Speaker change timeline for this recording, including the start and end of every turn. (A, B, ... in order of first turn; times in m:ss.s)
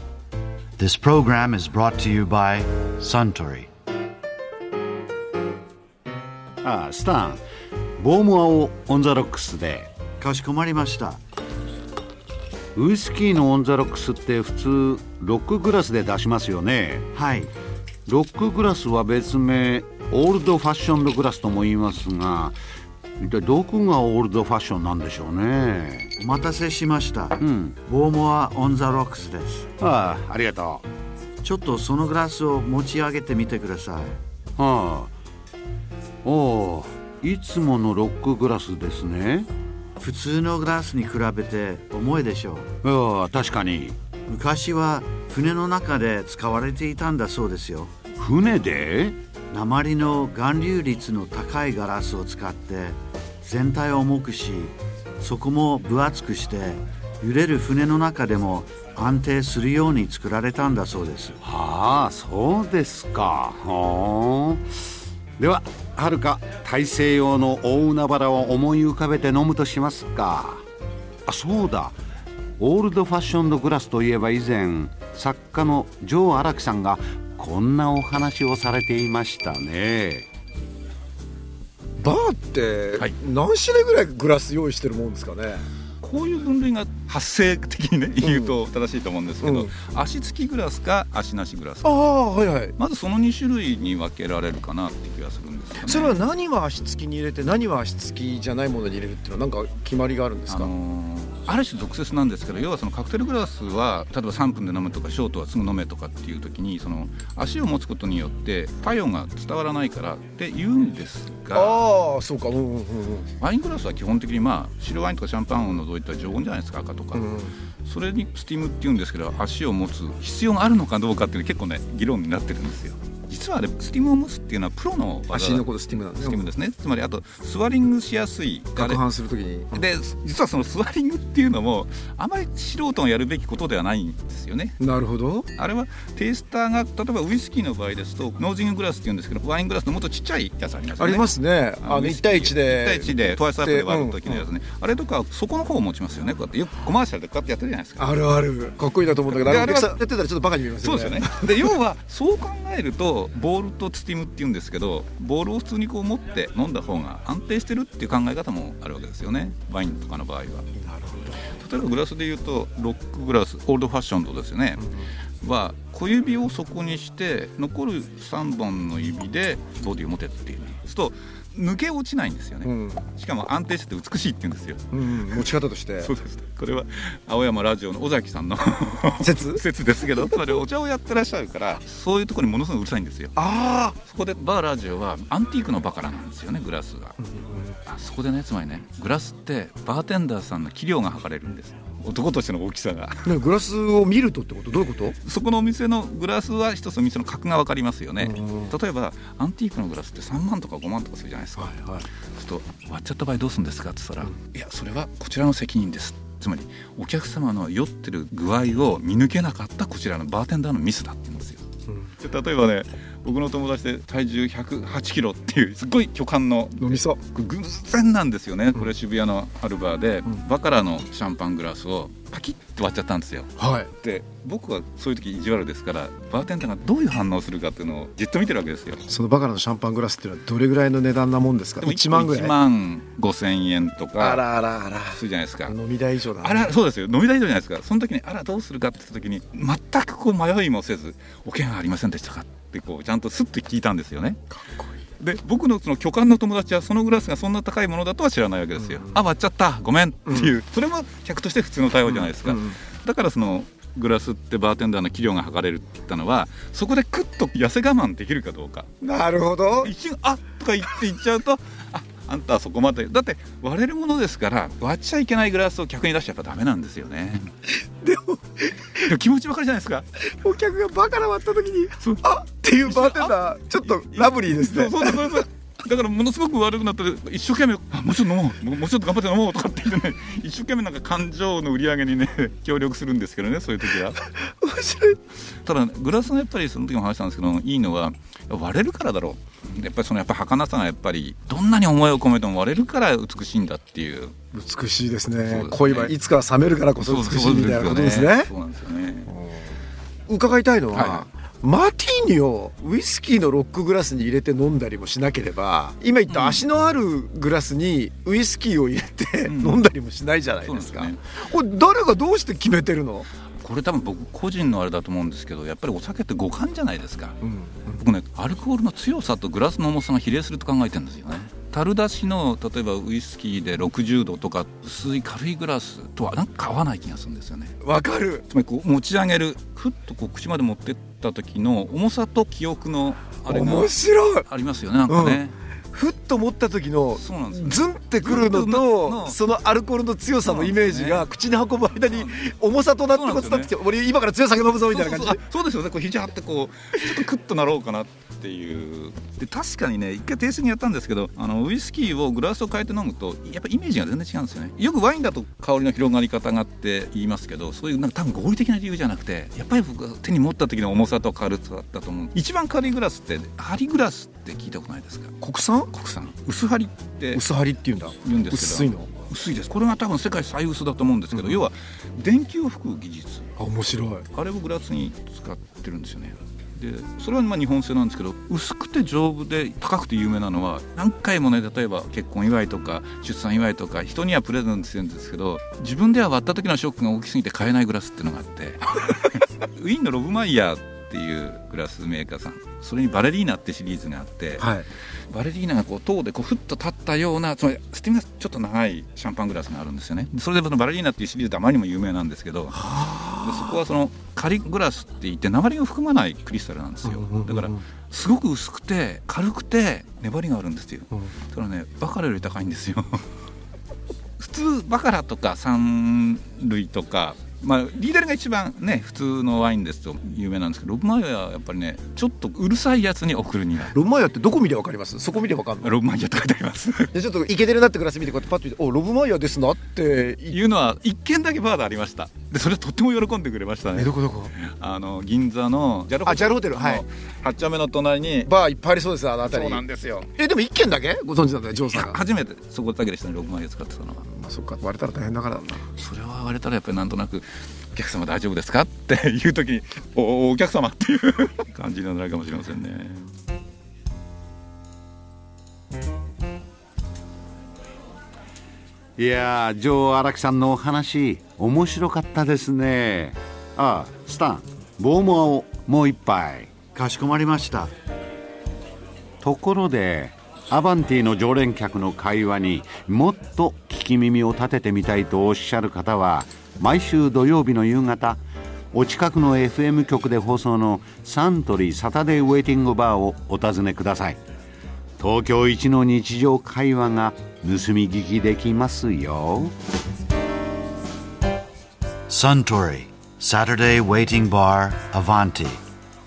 0:00.8-0:03.7 A
0:06.6-0:07.4 B
0:08.0-0:09.9 B
0:10.2-0:11.2 A
0:12.7-0:17.1 B
0:17.1-0:17.5 A
0:18.1-0:22.6 B
0:23.2-0:26.1 B
0:26.2-0:29.7 A
0:27.4-0:27.8 B
0:29.8-0:30.8 B
0:31.4-0:34.2 A
0:34.6-0:35.1 B
0:36.2-0:39.5 B
0:40.0-0:42.7 A
0:42.8-0:44.0 B
0:44.3-0:47.9 A
0:48.2-0:49.2 B
0:49.5-1:01.4 A
1:01.4-1:04.6 B
1:05.4-1:10.6 B
1:11.3-1:12.0 B
1:12.6-1:20.3 B
1:22.0-1:25.6 C
1:26.0-1:32.0 D
1:28.2-1:28.5 C
1:29.4-1:29.7 C
1:31.8-1:32.7 C
1:32.8-1:36.2 D
1:35.8-1:40.7 C
1:40.5-1:51.9 D
1:51.5-1:53.3 C
1:53.4-1:57.3 D
1:57.1-1:57.5 C
1:57.8-2:09.0 D
2:05.3-2:06.4 C
2:08.8-2:09.8 C
2:09.7-2:14.8 D
2:14.8-2:15.5 C
2:15.5-2:28.2 D
2:21.0-2:24.4 C
2:28.0-2:31.6 C
2:29.3-2:30.0 D
2:30.8-2:40.6 D
2:40.8-2:41.4 C
2:41.4-2:44.9 D
2:44.8-2:45.1 C
2:45.4-2:55.5 D
2:52.6-2:53.0 C
2:54.9-2:56.1 C
2:56.0-3:03.3 D
2:59.2-2:59.6 C
3:03.4-3:04.0 C
3:04.0-3:07.2 D
3:07.2-3:07.8 C
3:07.8-3:13.3 D
3:13.2-3:15.1 C
3:15.2-3:31.6 D
3:18.2-3:18.7 C
3:21.6-3:22.0 C
3:32.2-3:43.5 D
3:36.8-3:37.2 C
3:43.6-3:43.9 C
3:44.0-3:49.0 D
3:49.1-3:52.5 C
3:51.8-3:54.5 D
3:54.2-3:56.7 C
3:55.1-3:55.8 D
3:56.4-4:04.4 D
4:04.6-4:04.9 C
4:05.2-4:18.9 D
4:12.1-4:12.8 C
4:19.0-4:19.9 C
4:19.8-4:27.5 D
4:27.8-4:29.0 C
4:29.0-4:30.1 D
4:30.3-4:35.4 C
4:32.0-4:44.2 D
4:44.4-4:45.2 C
4:45.6-4:54.3 D
4:54.5-4:58.5 C
4:55.4-4:56.2 D
4:57.0-4:59.3 D
4:59.3-4:59.7 C
5:00.3-5:13.3 C
5:00.9-5:01.3 D
5:06.3-5:06.7 D
5:09.4-5:09.9 D
5:10.6-5:11.2 D
5:13.6-5:17.4 D
5:17.4-5:18.0 C
5:17.9-5:27.8 D
5:27.8-5:28.4 C
5:28.5-5:35.5 D
5:33.5-5:34.4 C
5:35.1-5:45.4 C
5:37.2-5:39.4 D
5:40.4-5:41.3 D
5:42.0-5:42.4 D
5:43.0-5:43.7 D
5:44.9-6:05.4 D
6:05.4-6:05.9 C
6:05.9-6:07.4 D
6:07.3-6:09.1 C
6:08.2-6:13.5 D
6:11.3-6:11.6 C
6:13.6-6:14.2 C
6:14.3-6:34.7 D
6:34.6-6:34.9 C
6:35.3-6:53.2 D
6:42.8-6:43.8 C
6:47.0-6:47.8 C
6:54.4-7:04.0 D
7:03.9-7:06.0 C
7:05.8-7:07.1 D
7:07.1-7:10.6 C
7:10.5-7:18.5 D
7:13.9-7:14.5 C
7:16.2-7:17.0 C
7:18.4-7:22.2 C
7:19.4-7:20.3 D
7:21.9-7:24.2 D
7:24.3-7:25.8 C
7:26.0-7:33.3 D
7:39.2-7:46.7 B
7:46.9-7:47.9 A
7:49.4-7:58.4 B
7:58.9-8:04.4 B
8:05.2-8:09.7 B
8:12.3-8:15.8 A